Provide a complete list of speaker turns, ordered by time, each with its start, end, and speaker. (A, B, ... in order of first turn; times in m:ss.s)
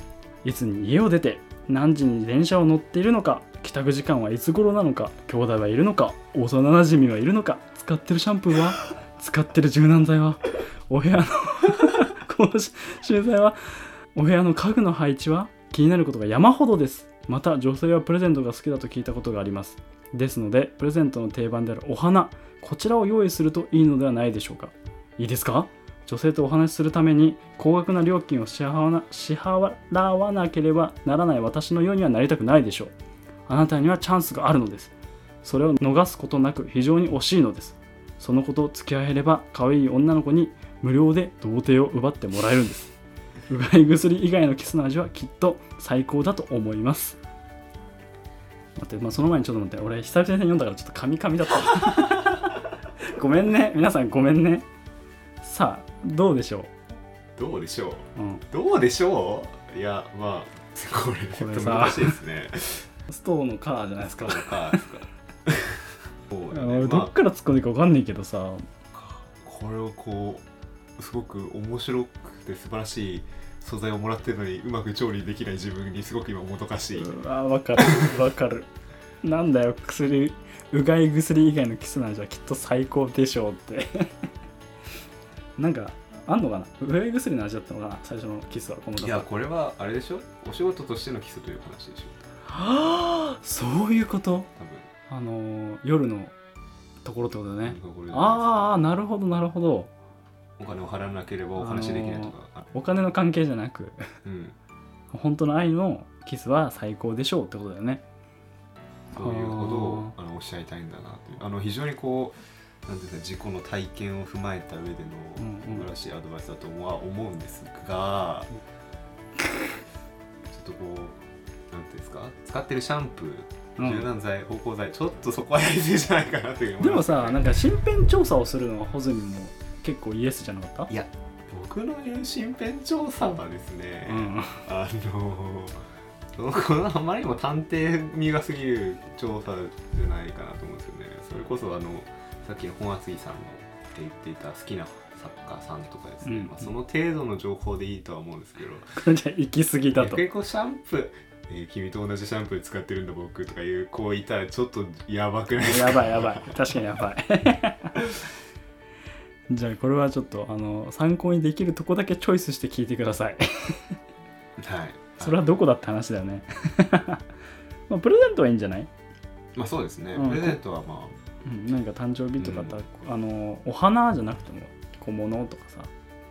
0:00.4-0:32.9 A
0:33.5-0:34.9 A
0:35.4-0:43.0 A
0:43.5-0:47.2 A
0:48.8-0:54.6 A
0:55.4-0:56.7 A
0:57.4-1:02.9 B
0:58.2-0:58.4 A
1:01.3-1:02.2 A
1:03.1-1:04.8 A
1:04.0-1:05.8 B
1:06.3-1:07.1 B
1:06.5-1:08.6 A
1:08.9-1:10.4 B
1:11.0-1:17.1 B
1:17.0-1:18.7 A
1:17.8-1:18.1 B
1:19.2-1:24.3 A
1:25.6-1:29.3 A
1:29.0-1:32.2 B
1:32.5-1:34.5 A
1:34.6-1:34.9 B
1:35.1-1:36.3 A
1:37.0-1:39.9 A
1:37.6-1:38.7 B
1:40.6-1:42.6 B
1:41.6-1:44.1 A
1:44.2-1:44.6 B
1:45.1-1:48.0 A
1:49.1-1:58.5 B
1:49.1-1:50.1 A
1:55.4-1:55.9 A
2:00.5-2:01.2 B
2:01.7-2:07.5 B
2:03.8-2:04.1 A
2:06.8-2:10.9 A
2:10.9-2:15.8 B
2:14.0-2:14.6 A
2:16.3-2:29.0 B
2:26.2-2:26.7 A
2:29.0-2:30.2 A
2:29.9-2:36.6 B
2:35.6-2:38.0 A
2:39.5-2:44.0 A
2:44.6-2:45.5 B
2:45.2-2:47.2 A
2:47.9-2:48.9 A
2:49.6-2:51.2 B
2:50.1-2:50.6 A
2:51.4-2:55.9 A
2:52.4-2:52.8 B